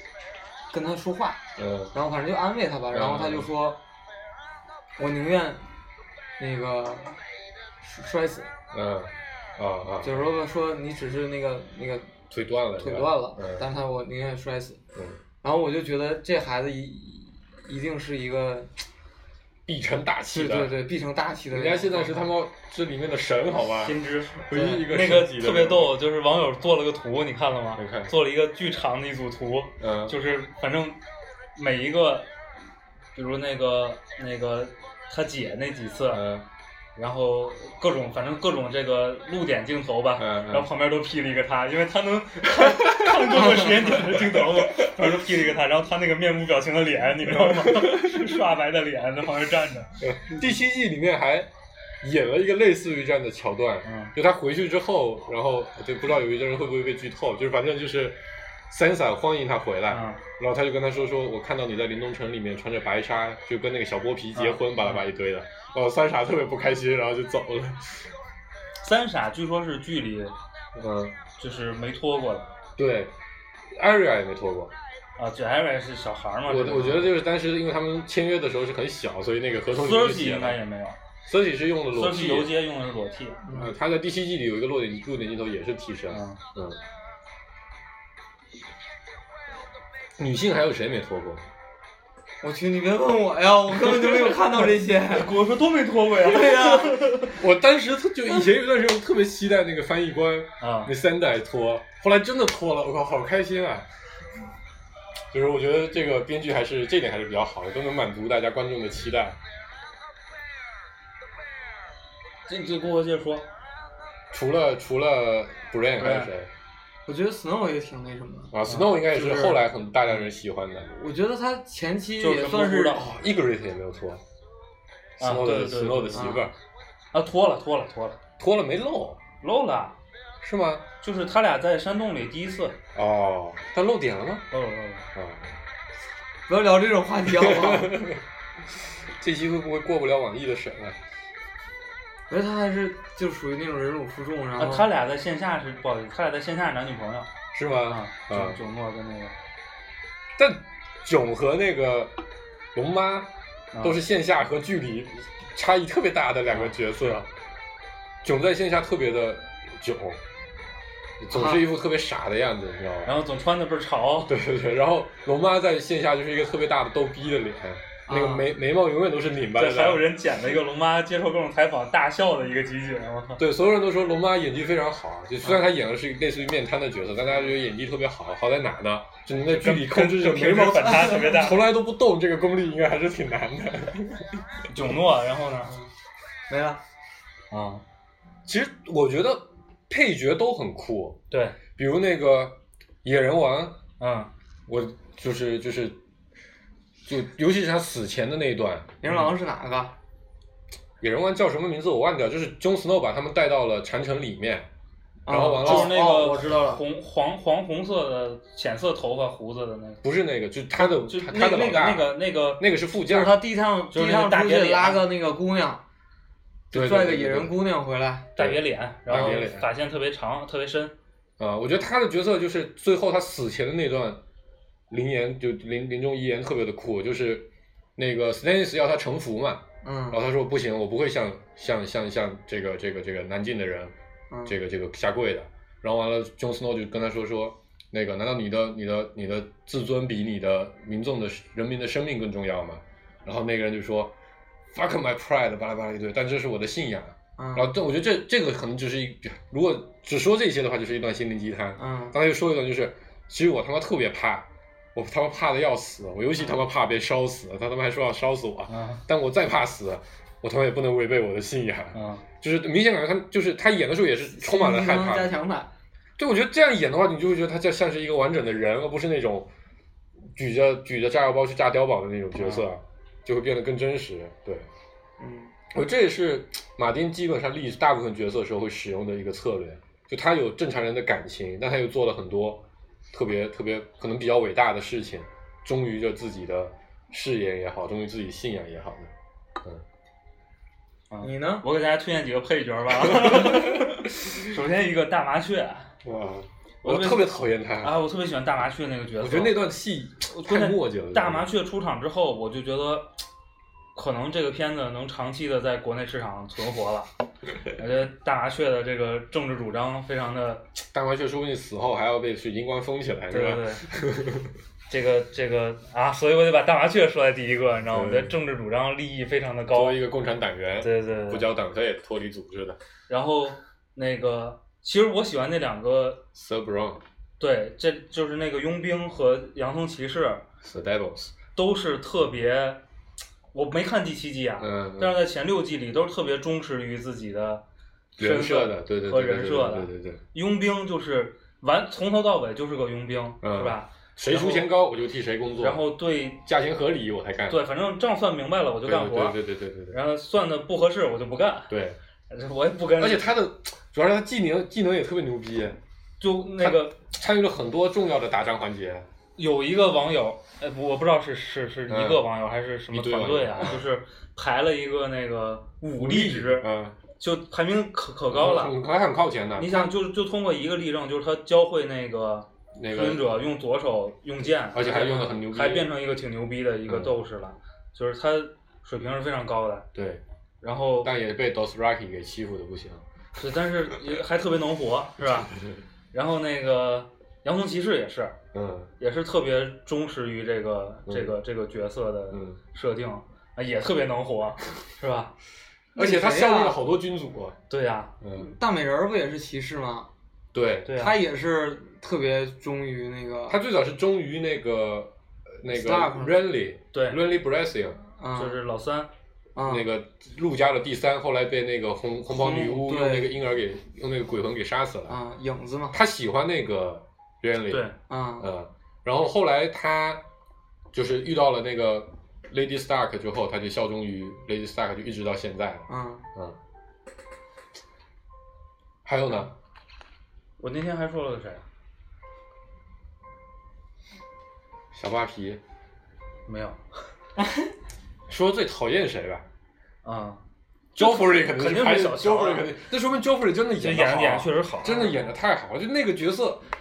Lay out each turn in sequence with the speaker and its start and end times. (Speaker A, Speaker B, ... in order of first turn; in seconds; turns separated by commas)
Speaker A: 0.7-1.4, Speaker B: 1.6-1.9, Speaker A: 1.9-3.8, Speaker B: 2.9-3.5, Speaker A: 5.0-5.7, Speaker A: 6.4-7.2, Speaker A: 7.8-8.5, Speaker B: 8.7-10.3, Speaker A: 10.0-12.1, Speaker B: 12.3-13.6, Speaker A: 12.8-14.8, Speaker B: 14.9-15.2, Speaker A: 15.4-18.7, Speaker B: 19.6-20.7, Speaker A: 20.3-22.3, Speaker B: 21.5-25.9, Speaker C: 23.8-24.3, Speaker A: 24.5-24.8, Speaker C: 24.9-31.0, Speaker B: 27.7-28.1, Speaker B: 29.8-30.1, Speaker C: 31.6-32.3, Speaker C: 33.1-36.3, Speaker B: 36.1-36.5, Speaker C: 37.0-50.0, Speaker B: 40.2-40.7, Speaker B: 42.6-45.1, Speaker B: 47.2-48.3, Speaker B: 50.0-51.5, Speaker B: 52.0-68.0, Speaker C: 53.8-54.1, Speaker C: 59.9-60.2, Speaker C: 64.3-65.0, Speaker C: 68.8-70.3, Speaker B: 70.8-71.2, Speaker C: 71.4-72.5, Speaker B: 72.8-73.1, Speaker B: 73.7-74.7, Speaker C: 75.2-77.1, Speaker B: 76.5-80.6, Speaker C: 79.7-81.0, Speaker B: 81.2-82.5, Speaker C: 81.9-83.4, Speaker A: 83.4-83.7, Speaker B: 83.5-86.8, Speaker C: 86.1-86.4, Speaker B: 90.2-91.4, Speaker A: 92.4-95.3, Speaker C: 95.1-97.3, Speaker A: 96.2-97.2, Speaker B: 97.2-103.9, Speaker C: 100.6-100.9, Speaker B: 105.3-109.4, Speaker C: 112.5-113.5, Speaker B: 114.3-116.5, Speaker C: 116.0-116.3, Speaker A: 117.0-118.5, Speaker B: 118.5-120.9, Speaker A: 119.1-119.6, Speaker A: 120.9-123.0, Speaker C: 122.2-123.1, Speaker B: 122.9-124.2, Speaker C: 125.2-126.3, Speaker B: 125.2-126.5, Speaker A: 126.2-126.5, Speaker C: 127.1-128.2, Speaker B: 128.4-129.2, Speaker C: 129.4-130.0, Speaker B: 130.4-130.9, Speaker C: 131.0-132.8, Speaker B: 132.9-134.5, Speaker C: 134.5-135.1, Speaker B: 135.1-135.6, Speaker A: 136.5-138.1, Speaker B: 137.3-138.2, Speaker B: 139.2-141.0, Speaker A: 142.3-144.9, Speaker C: 144.6-147.3, Speaker B: 147.5-148.6, Speaker C: 147.8-149.3, Speaker B: 150.4-152.1, Speaker B: 152.7-153.3, Speaker C: 153.7-154.0, Speaker B: 153.8-157.3, Speaker C: 156.5-156.8, Speaker B: 158.2-160.2, Speaker B: 161.2-163.2, Speaker A: 161.3-161.6, Speaker C: 163.0-164.3, Speaker B: 164.3-170.1, Speaker A: 168.1-168.5, Speaker C: 169.5-173.4, Speaker B: 173.4-184.6, Speaker C: 179.4-181.6, Speaker A: 180.7-181.4, Speaker C: 184.7-185.7, Speaker A: 186.5-186.8, Speaker C: 187.5-187.8, Speaker B: 188.4-191.2, Speaker C: 191.3-191.6, Speaker B: 191.8-193.8, Speaker C: 194.0-194.3, Speaker B: 194.7-196.0, Speaker B: 197.1-198.9, Speaker A: 199.0-199.9, Speaker C: 199.0-199.3, Speaker B: 201.0-204.7, Speaker A: 205.3-206.8, Speaker B: 205.3-206.0, Speaker C: 205.6-210.0, Speaker B: 210.0-213.4, Speaker C: 210.8-212.6, Speaker A: 213.1-215.8, Speaker C: 213.9-215.0, Speaker B: 216.7-217.5, Speaker A: 216.7-218.3, Speaker C: 218.3-220.9, Speaker B: 218.4-219.7, Speaker B: 221.4-224.2, Speaker B: 224.9-233.9, Speaker A: 229.8-230.2, Speaker A: 234.3-234.6, Speaker B: 234.4-244.1, Speaker B: 244.7-265.3, Speaker A: 247.4-247.7, Speaker A: 251.8-252.1, Speaker C: 258.7-259.0, Speaker C: 261.9-262.2, Speaker A: 264.3-265.7, Speaker B: 266.2-269.5, Speaker B: 270.4-274.7, Speaker C: 272.4-272.7, Speaker A: 275.2-275.5, Speaker B: 275.7-289.1, Speaker C: 291.1-295.9, Speaker A: 291.2-291.6, Speaker B: 293.1-294.0, Speaker B: 296.0-298.0, Speaker C: 296.8-299.6, Speaker B: 299.2-301.5, Speaker C: 300.3-303.1, Speaker C: 303.9-307.1, Speaker C: 307.7-310.6, Speaker B: 310.9-314.5, Speaker C: 313.3-313.8, Speaker C: 314.9-320.0, Speaker B: 317.9-318.3, Speaker B: 319.7-322.8, Speaker C: 320.8-321.4, Speaker C: 323.1-326.2, Speaker B: 326.3-327.0, Speaker C: 327.4-330.4, Speaker B: 330.6-331.4, Speaker C: 331.6-332.8, Speaker C: 333.5-337.6, Speaker B: 334.6-335.2, Speaker B: 338.2-340.2, Speaker C: 338.2-344.7, Speaker B: 343.4-345.8, Speaker C: 345.6-346.4, Speaker B: 346.4-347.6, Speaker C: 347.5-349.4, Speaker B: 348.8-350.0, Speaker C: 349.9-351.7, Speaker B: 351.7-352.0, Speaker C: 352.3-353.3, Speaker B: 353.0-355.8, Speaker C: 356.2-356.9, Speaker B: 356.6-359.1, Speaker C: 359.4-368.8, Speaker B: 361.9-362.2, Speaker B: 362.9-363.8, Speaker B: 366.0-367.0, Speaker B: 368.3-369.9, Speaker C: 369.6-379.9, Speaker B: 372.8-373.3, Speaker B: 374.7-375.9, Speaker B: 376.9-377.1, Speaker B: 379.9-380.2, Speaker C: 380.6-381.1, Speaker B: 381.0-383.0, Speaker C: 383.4-385.5, Speaker C: 386.1-388.4, Speaker B: 388.5-388.9, Speaker C: 389.0-395.3, Speaker B: 391.1-391.4, Speaker B: 392.3-392.6, Speaker B: 395.9-397.6, Speaker A: 395.9-396.8, Speaker C: 397.7-398.1, Speaker B: 398.2-398.5, Speaker A: 398.4-400.1, Speaker B: 400.5-400.9, Speaker C: 400.8-401.2, Speaker A: 400.9-403.6, Speaker B: 403.5-408.0, Speaker A: 405.7-406.4, Speaker C: 406.9-407.2, Speaker A: 408.2-408.6, Speaker C: 408.4-409.1, Speaker A: 409.6-409.9, Speaker B: 409.6-415.2, Speaker A: 412.3-413.3, Speaker A: 415.1-416.0, Speaker B: 415.9-417.8, Speaker C: 417.7-417.9, Speaker A: 418.1-418.5, Speaker B: 418.4-420.2, Speaker B: 420.9-426.6, Speaker A: 425.9-426.3, Speaker B: 429.0-429.5, Speaker C: 430.6-431.6, Speaker B: 434.9-435.6, Speaker C: 436.4-436.8, Speaker A: 437.4-437.6, Speaker B: 438.3-439.4, Speaker C: 440.0-440.4, Speaker B: 440.9-446.6, Speaker C: 440.9-442.7, Speaker C: 443.8-445.2